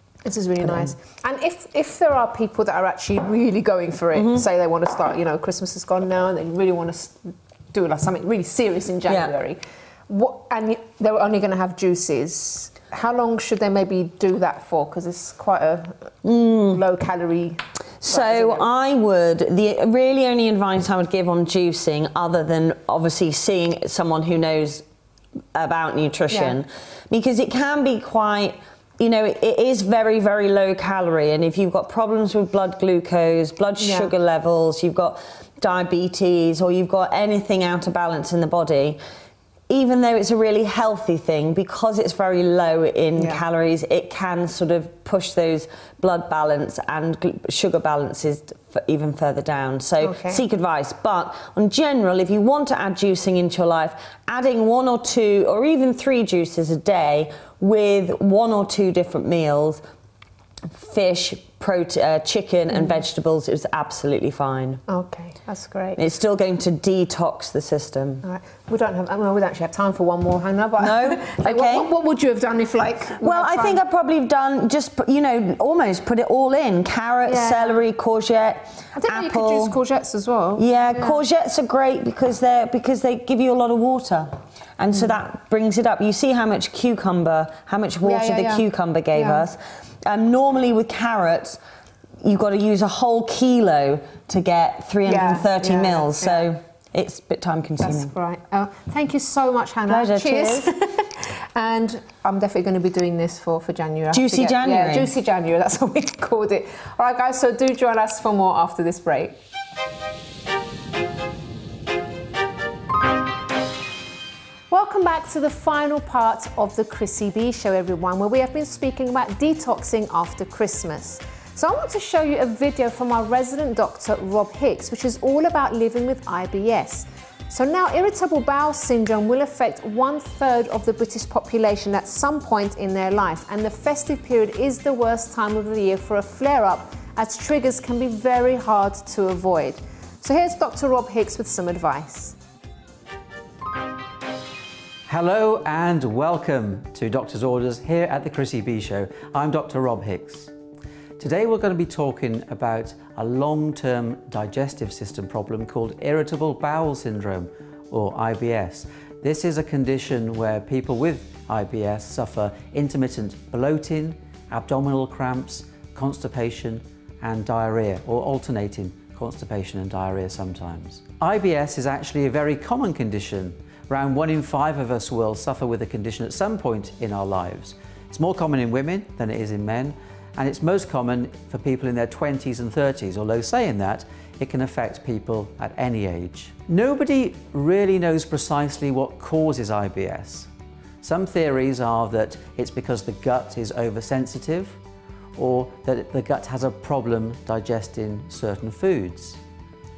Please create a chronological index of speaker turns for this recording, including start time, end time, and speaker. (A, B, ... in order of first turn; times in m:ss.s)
0:00.2-0:16.1 A
0:00.6-0:00.9 B
0:04.1-0:04.4 B
0:09.1-0:09.3 B
0:16.2-0:16.8 B
0:16.7-0:18.6 A
0:18.0-0:24.8 B
0:25.5-0:39.0 B
0:26.3-0:26.6 A
0:33.8-0:34.1 A
0:39.7-0:59.8 B
0:43.2-0:43.4 A
0:50.0-0:50.4 A
1:00.7-1:04.8 B
1:02.7-1:03.0 A
1:04.9-1:06.0 A
1:06.0-1:08.2 B
1:08.2-1:13.8 A
1:10.8-1:11.9 B
1:13.2-1:19.8 B
1:17.2-1:17.8 A
1:18.9-1:21.2 A
1:20.6-1:31.6 B
1:24.9-1:25.2 A
1:28.0-1:29.4 A
1:32.2-1:38.1 B
1:35.0-1:36.4 A
1:37.8-1:49.4 A
1:39.9-1:40.7 B
1:44.1-1:45.1 B
1:54.7-2:22.4 A
2:25.1-2:30.5 C
2:31.2-3:10.5 C
3:11.0-3:14.8 C
3:15.4-3:19.4 C